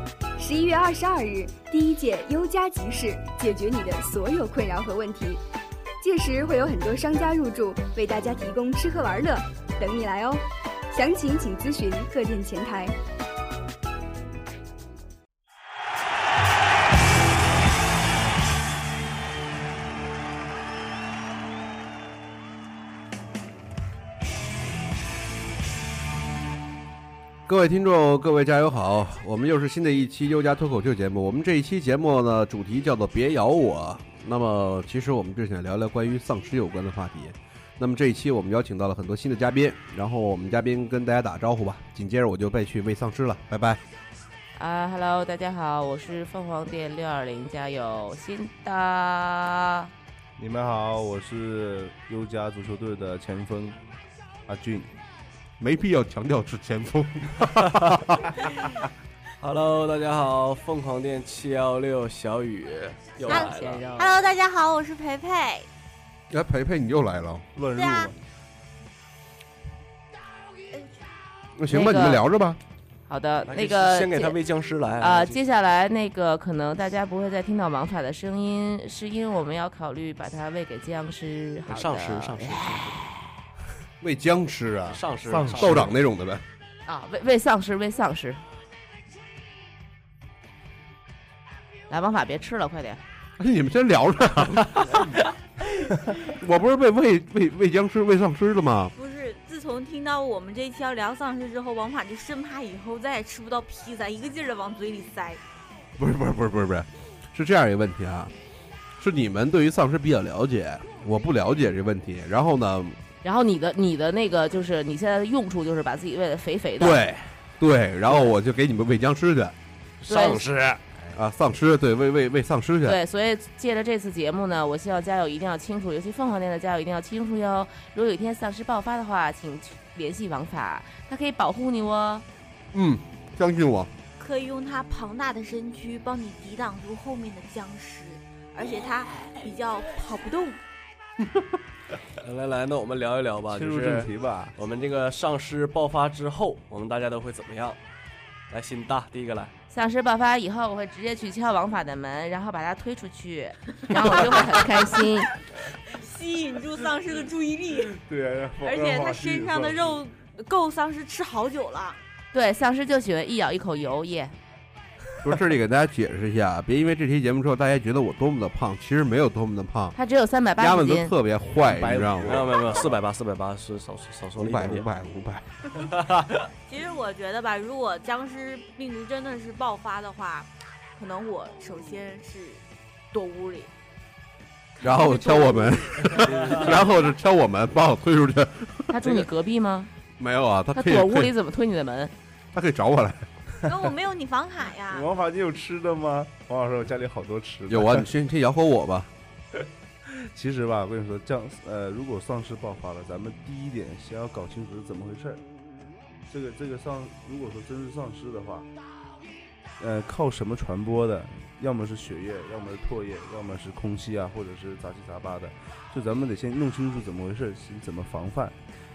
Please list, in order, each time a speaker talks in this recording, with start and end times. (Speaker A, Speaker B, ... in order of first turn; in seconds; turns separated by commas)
Speaker A: 0.4-5.4, Speaker A: 6.0-12.9, Speaker B: 27.5-43.8, Speaker C: 44.6-49.9, Speaker D: 50.4-53.8, Speaker D: 54.5-54.9, Speaker B: 55.6-58.4, Speaker E: 57.6-57.9, Speaker E: 59.4-63.8, Speaker C: 63.3-64.1, Speaker F: 63.3-65.7, Speaker B: 66.3-67.5, Speaker D: 67.5-68.2, Speaker F: 67.8-68.1, Speaker B: 71.6-72.6, Speaker C: 71.7-72.2, Speaker C: 73.1-74.3, Speaker E: 73.5-75.4, Speaker C: 75.0-82.9, Speaker E: 81.7-83.0, Speaker B: 84.0-85.0, Speaker E: 84.9-85.9, Speaker D: 85.3-85.9, Speaker B: 85.6-86.4, Speaker C: 86.9-88.4, Speaker C: 91.9-93.0, Speaker B: 93.4-95.2, Speaker B: 96.2-98.9, Speaker F: 99.0-105.4, Speaker B: 106.0-108.3, Speaker B: 109.0-113.0, Speaker C: 113.2-117.0, Speaker B: 116.8-119.5, Speaker E: 120.0-120.8, Speaker C: 120.1-120.4, Speaker B: 121.2-123.0, Speaker C: 122.8-132.2, Speaker B: 132.7-133.9, Speaker F: 134.2-140.6, Speaker E: 142.2-147.8, Speaker D: 143.5-144.5, Speaker E: 148.5-149.5, Speaker C: 149.7-155.3, Speaker F: 154.2-154.9, Speaker F: 155.9-158.0, Speaker D: 157.9-160.0, Speaker F: 158.6-162.0, Speaker C: 162.3-164.3, Speaker B: 165.2-169.9, Speaker C: 169.9-171.2, Speaker B: 170.6-172.5, Speaker D: 171.6-173.0, Speaker E: 172.2-174.9, Speaker B: 174.4-175.5, Speaker E: 175.8-176.5, Speaker F: 176.7-183.7, Speaker F: 184.7-186.2, Speaker B: 184.8-189.3, Speaker C: 188.9-189.9, Speaker B: 190.2-191.3, Speaker C: 190.7-192.1, Speaker B: 192.5-193.3, Speaker F: 193.7-195.1, Speaker D: 194.9-198.1, Speaker B: 197.7-199.1, Speaker D: 200.1-205.4, Speaker D: 206.3-208.7, Speaker D: 209.8-218.6